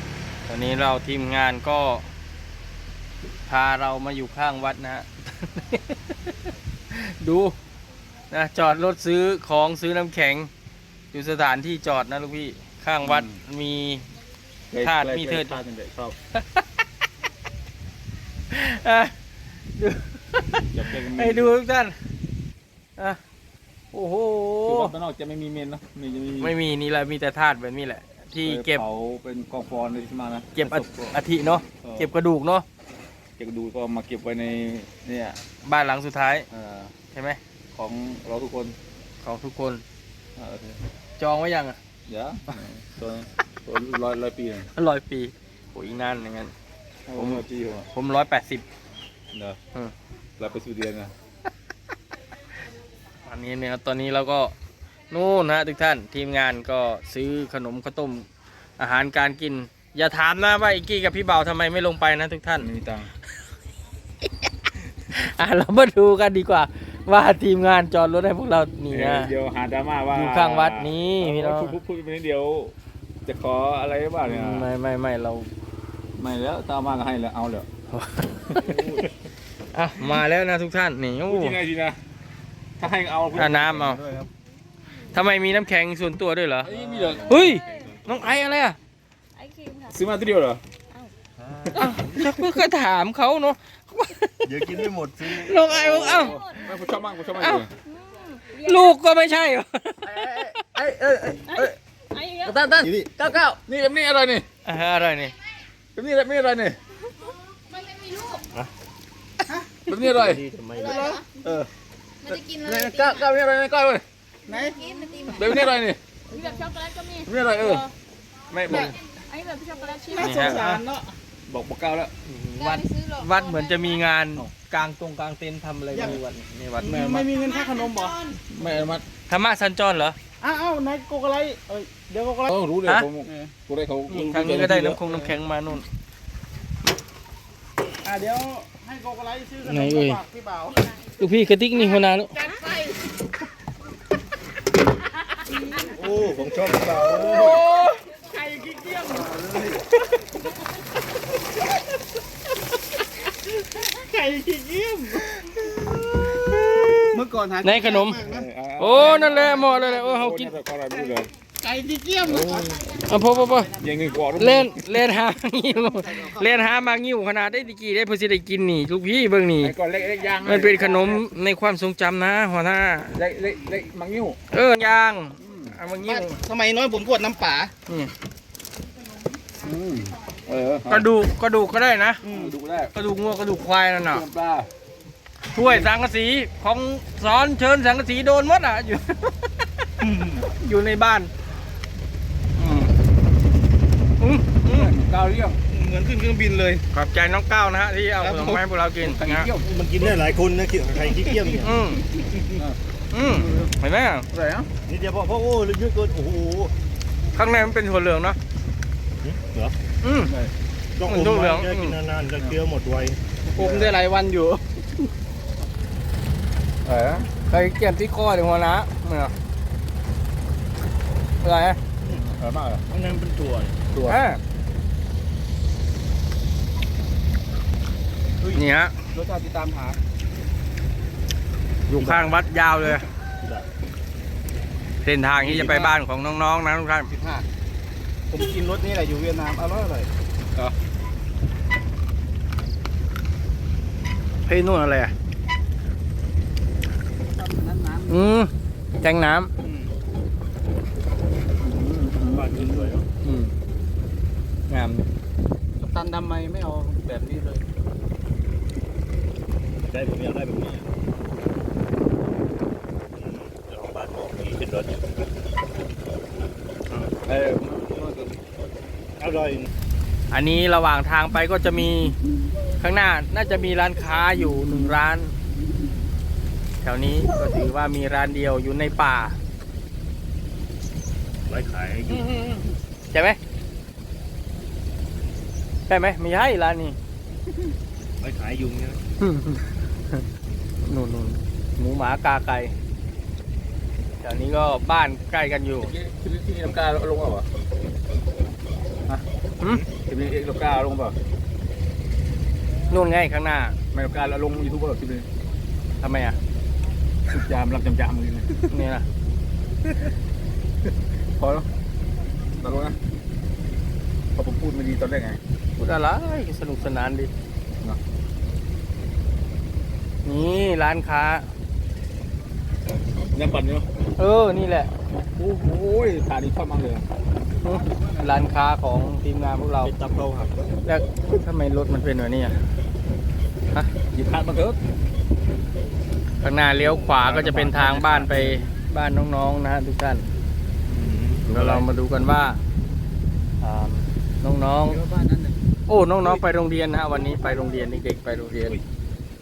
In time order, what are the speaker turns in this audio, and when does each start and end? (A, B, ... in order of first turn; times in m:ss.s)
0:00.5-0:02.1 A
0:03.5-0:06.3 A
0:06.9-0:07.5 A
0:08.3-0:10.5 A
0:11.1-0:14.0 A
0:13.0-0:13.4 B
0:14.7-0:16.2 B
0:14.8-0:15.6 A
0:16.4-0:16.6 A
0:18.5-0:19.1 A
0:19.8-0:22.0 A
0:20.7-0:21.6 B
0:23.9-0:24.9 A
0:24.6-0:26.5 B
0:26.4-0:28.8 A
0:28.4-0:31.2 B
0:30.6-0:32.6 A
0:31.8-0:32.1 B
0:33.4-0:35.4 B
0:35.6-0:36.5 A
0:36.5-0:36.9 B
0:37.1-0:37.4 A
0:37.8-0:38.8 B
0:39.2-0:39.8 A
0:40.4-0:40.8 B
0:41.2-0:41.8 A
0:42.1-0:44.7 B
0:44.8-0:46.5 A
0:47.1-0:47.9 B
0:47.1-0:48.6 A
0:49.3-0:49.6 B
0:50.4-0:51.1 B
0:53.3-0:54.5 A
0:55.1-0:58.3 A
0:58.8-1:02.7 A
1:02.6-1:03.1 B
1:05.1-1:09.3 A
1:08.9-1:12.7 B
1:10.1-1:11.8 A
1:13.3-1:14.7 B
1:14.2-1:15.5 A
1:16.2-1:17.7 B
1:17.9-1:18.8 A
1:18.5-1:19.1 B
1:19.7-1:21.6 A
1:21.3-1:22.0 B
1:22.8-1:24.0 B
1:23.3-1:24.0 A
1:25.1-1:28.8 A
1:26.6-1:27.9 B
1:27.4-1:27.9 C
1:29.4-1:29.9 C
1:29.9-1:30.6 B
1:31.8-1:34.7 A
1:34.5-1:35.7 D
1:35.2-1:36.4 A
1:35.7-1:37.7 B
1:37.4-1:37.6 A
1:37.9-1:38.9 C
1:38.6-1:40.5 A
1:40.0-1:41.8 B
1:41.5-1:42.6 C
1:42.5-1:44.4 B
1:42.8-1:43.2 D
1:44.6-1:45.3 A
1:46.0-1:46.8 B
1:47.7-1:48.4 C
1:49.5-1:49.7 E
1:49.9-1:50.4 B
1:50.1-1:51.1 D
1:50.8-1:51.2 C
1:50.8-1:51.2 E
1:52.2-1:53.2 C
1:52.3-1:54.0 B
1:54.5-1:55.3 E
1:54.6-1:55.7 C
1:55.3-1:56.0 B
1:56.3-1:57.8 C
1:57.3-1:57.9 B
1:58.5-1:58.9 B
1:58.6-1:58.9 A
1:58.9-2:00.6 C
2:00.2-2:01.2 E
2:00.2-2:00.8 A
2:01.5-2:02.1 B
2:02.3-2:07.2 A
2:02.6-2:04.0 C
2:05.9-2:06.2 E
2:06.8-2:08.3 E
2:07.9-2:08.4 C
2:08.5-2:09.0 B
2:09.3-2:10.2 A
2:10.4-2:12.5 E
2:12.5-2:15.3 B
2:13.3-2:13.5 E
2:14.1-2:15.8 A
2:18.0-2:20.9 E
2:19.6-2:20.2 A
2:21.2-2:22.5 A
2:22.5-2:23.0 C
2:26.0-2:27.3 D
2:26.1-2:27.6 B
2:27.2-2:28.0 A
2:28.3-2:29.8 E
2:33.8-2:35.3 E
2:37.1-2:38.5 E
2:37.6-2:38.2 A
2:38.3-2:41.3 B
2:38.8-2:40.5 A
2:41.6-2:42.8 E
2:42.2-2:42.8 B
2:42.9-2:43.7 A
2:43.7-2:44.8 B
2:44.4-2:49.7 A
2:46.1-2:46.5 E
2:49.6-2:51.2 B
2:50.4-2:53.2 A
2:53.1-2:54.4 B
2:54.5-2:56.4 A
2:55.4-2:55.8 B
2:56.0-2:57.7 E
2:57.9-2:58.1 A
2:59.6-3:01.1 B
3:00.9-3:02.2 A
3:02.2-3:02.9 B
3:02.2-3:02.5 E
3:02.9-3:04.2 A
3:04.1-3:04.7 B
3:05.5-3:09.4 A
3:10.0-3:10.4 E
3:10.4-3:11.3 A
3:12.6-3:12.8 A
3:14.2-3:14.9 A
3:14.6-3:15.6 B
3:15.7-3:16.8 E
3:16.9-3:19.5 A
3:18.2-3:18.6 E
3:19.0-3:19.7 B
3:19.6-3:21.8 D
3:21.6-3:22.0 A
3:22.2-3:22.6 E
3:23.1-3:24.3 A
3:23.4-3:23.7 B
3:24.3-3:24.7 B
3:24.9-3:26.7 D
3:27.4-3:28.4 A
3:29.2-3:29.8 D
3:30.0-3:30.3 A
3:31.0-3:33.2 D
3:31.0-3:32.0 A
3:33.4-3:34.6 E
3:33.6-3:34.0 B
3:36.8-3:37.3 B
3:37.4-3:39.3 A
3:41.4-3:41.8 A
3:42.2-3:42.8 B
3:42.9-3:43.7 E
3:43.1-3:43.5 D
3:43.9-3:44.2 B
3:44.1-3:44.4 A
3:48.5-3:49.0 A
3:49.1-3:50.0 E
3:51.9-3:53.1 A
3:55.0-3:57.1 A
3:55.4-3:55.9 E
3:57.1-3:57.5 E
3:58.3-4:00.1 E
4:04.5-4:05.1 A
4:07.3-4:08.2 E
4:08.1-4:09.5 A
4:09.6-4:09.9 E
4:11.8-4:12.5 B
4:12.3-4:13.0 D
4:13.2-4:13.5 A
4:14.7-4:15.1 A
4:15.8-4:17.6 E
4:19.9-4:20.8 D
4:23.2-4:24.9 D
4:27.2-4:28.4 B
4:29.2-4:29.7 D
4:30.3-4:32.2 A
4:32.8-4:35.3 A
4:36.8-4:39.4 A
4:41.5-4:42.3 D
4:43.1-4:43.4 A
4:45.9-4:47.0 A
4:48.2-4:49.0 D
4:49.2-4:50.2 A
4:50.8-4:52.7 A
4:54.2-4:55.9 A
4:55.8-4:57.5 B
4:59.8-5:01.2 B
5:02.9-5:03.8 A
5:03.9-5:05.3 B
5:06.0-5:06.4 A
5:07.3-5:08.7 B
5:08.7-5:09.1 A
5:11.4-5:11.7 B
5:12.6-5:13.0 B
5:14.4-5:15.4 B
5:15.8-5:17.3 A
5:20.2-5:21.5 A
5:23.3-5:23.9 B
5:24.2-5:24.9 A
5:25.4-5:27.0 B
5:27.6-5:29.9 A
5:29.8-5:30.7 D
5:30.8-5:32.6 A
5:34.1-5:34.8 B
5:36.4-5:40.3 A
5:37.2-5:38.6 B
5:40.9-5:41.9 B
5:41.5-5:42.6 A
5:43.6-5:45.0 A
5:44.9-5:45.6 E
5:45.9-5:48.8 A